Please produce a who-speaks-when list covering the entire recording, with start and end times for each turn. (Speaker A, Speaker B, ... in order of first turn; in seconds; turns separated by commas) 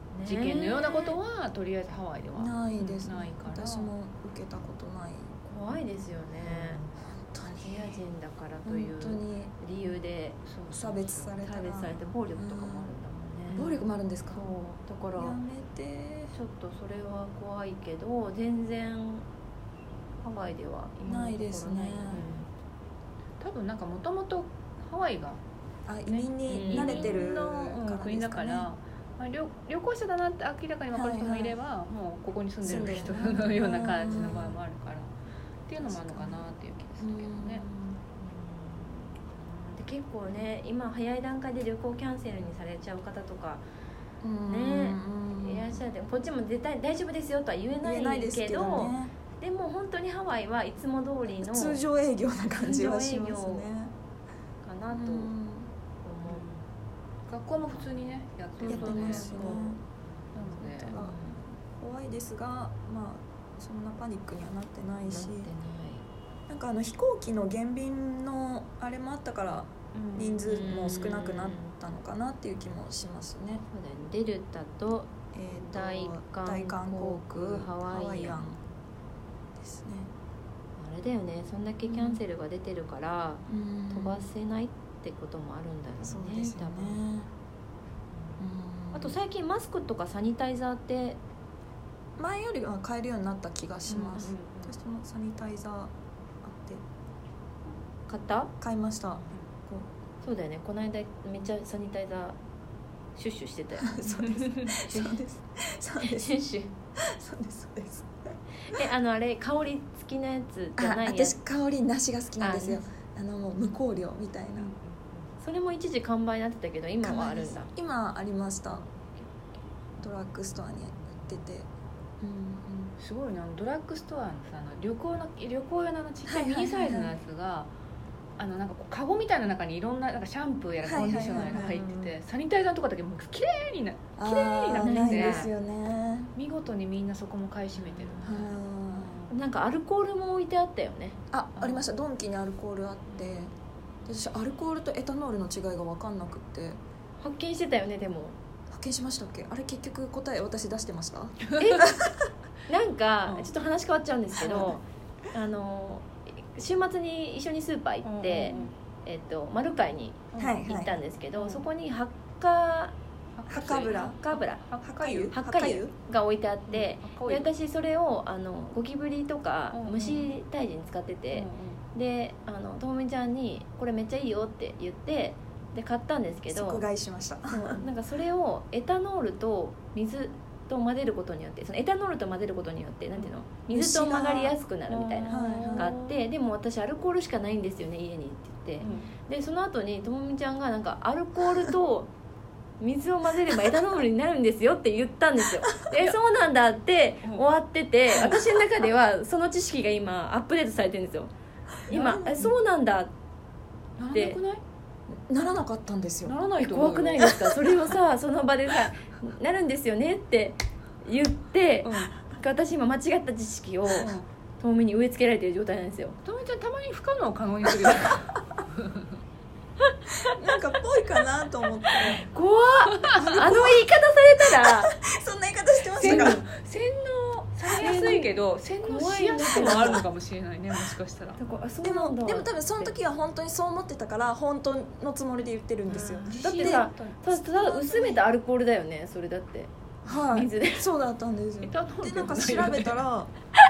Speaker A: 0.1-1.2, Speaker B: 0.2-3.9, Speaker C: 2.3-5.3, Speaker A: 5.4-6.8, Speaker B: 6.4-6.9, Speaker C: 7.0-8.0, Speaker A: 7.6-10.4, Speaker C: 8.6-9.5, Speaker B: 10.4-11.3, Speaker C: 10.7-12.9, Speaker A: 11.4-13.7, Speaker B: 13.5-13.8, Speaker C: 13.6-14.4, Speaker A: 14.3-15.4, Speaker C: 15.2-16.3, Speaker A: 16.3-19.3, Speaker A: 20.2-22.5, Speaker C: 21.1-22.2, Speaker B: 23.4-25.4, Speaker C: 25.9-28.7, Speaker A: 26.1-27.1, Speaker B: 26.2-35.1, Speaker C: 30.9-31.6, Speaker C: 32.6-34.6, Speaker A: 32.7-33.1, Speaker B: 35.7-37.6, Speaker C: 35.8-38.0, Speaker A: 38.2-43.6, Speaker C: 44.2-45.8, Speaker A: 44.5-51.8, Speaker C: 47.8-49.1, Speaker C: 51.3-53.9, Speaker A: 52.6-53.7, Speaker A: 54.6-55.3, Speaker C: 54.9-55.7, Speaker A: 56.0-56.4, Speaker B: 56.3-56.6, Speaker B: 57.3-59.7, Speaker A: 57.7-59.8, Speaker C: 58.6-59.8, Speaker B: 60.3-61.0, Speaker C: 60.5-61.2, Speaker A: 60.9-61.5, Speaker C: 61.7-65.5, Speaker A: 65.1-66.0, Speaker C: 66.5-73.6, Speaker B: 69.9-70.6, Speaker A: 70.5-71.7, Speaker A: 73.7-78.4, Speaker C: 75.3-78.6, Speaker C: 79.6-80.1, Speaker A: 80.8-87.0, Speaker C: 81.8-82.2, Speaker C: 83.5-84.3, Speaker C: 86.0-87.3, Speaker C: 88.4-89.2, Speaker A: 88.9-91.2, Speaker C: 92.2-95.9, Speaker B: 93.9-94.7, Speaker C: 96.4-96.8, Speaker A: 98.1-98.5, Speaker C: 98.6-99.8, Speaker A: 100.2-102.4, Speaker A: 103.1-104.0, Speaker C: 103.8-106.4, Speaker B: 104.2-104.7, Speaker A: 104.8-105.2, Speaker A: 106.0-106.7, Speaker C: 107.0-108.3, Speaker A: 108.6-111.4, Speaker C: 110.8-114.7, Speaker A: 112.4-112.8, Speaker B: 114.5-115.3, Speaker A: 115.4-117.7, Speaker C: 117.0-118.9, Speaker A: 118.7-119.5, Speaker C: 120.0-121.7, Speaker C: 122.2-122.9, Speaker B: 123.0-127.7, Speaker C: 126.2-127.1, Speaker B: 128.4-135.5, Speaker C: 130.8-131.8, Speaker A: 131.3-132.1, Speaker C: 134.2-136.3, Speaker A: 134.7-135.5, Speaker B: 136.3-139.3, Speaker A: 137.8-138.3, Speaker C: 138.2-139.1, Speaker A: 139.3-141.2, Speaker C: 141.3-143.5, Speaker B: 141.6-141.8, Speaker C: 144.1-146.8, Speaker A: 147.2-148.3, Speaker C: 148.7-152.2, Speaker A: 151.6-151.9, Speaker A: 152.7-162.9, Speaker C: 154.4-154.8, Speaker B: 158.0-158.7, Speaker B: 160.3-160.6, Speaker C: 160.4-160.9, Speaker B: 161.3-161.7, Speaker B: 163.3-165.3, Speaker C: 163.5-164.2, Speaker A: 163.9-164.6, Speaker C: 164.8-165.9, Speaker A: 165.3-176.8, Speaker B: 166.7-167.5, Speaker B: 169.7-170.3, Speaker B: 171.3-171.8, Speaker C: 176.5-177.8, Speaker A: 177.5-192.1, Speaker C: 183.7-184.6, Speaker B: 184.9-186.2, Speaker C: 185.3-185.9, Speaker B: 188.8-189.1, Speaker A: 192.8-201.3, Speaker A: 201.9-203.1, Speaker C: 201.9-202.5, Speaker B: 201.9-202.2, Speaker B: 204.0-204.6, Speaker A: 204.1-204.4, Speaker C: 205.1-206.4, Speaker B: 206.2-207.3, Speaker A: 206.6-216.2, Speaker C: 207.2-207.5, Speaker B: 211.8-212.1, Speaker B: 213.9-214.3, Speaker B: 216.2-219.1, Speaker C: 217.7-218.0, Speaker C: 220.3-222.2, Speaker A: 222.1-224.9, Speaker B: 222.8-223.3, Speaker C: 223.1-223.9, Speaker C: 224.6-226.4, Speaker B: 226.0-231.4, Speaker A: 226.0-226.4, Speaker A: 227.7-230.1, Speaker A: 231.4-232.9, Speaker C: 231.8-236.9, Speaker B: 235.9-238.2, Speaker A: 236.3-240.8, Speaker C: 237.5-238.0, Speaker C: 240.0-243.3, Speaker B: 241.6-243.0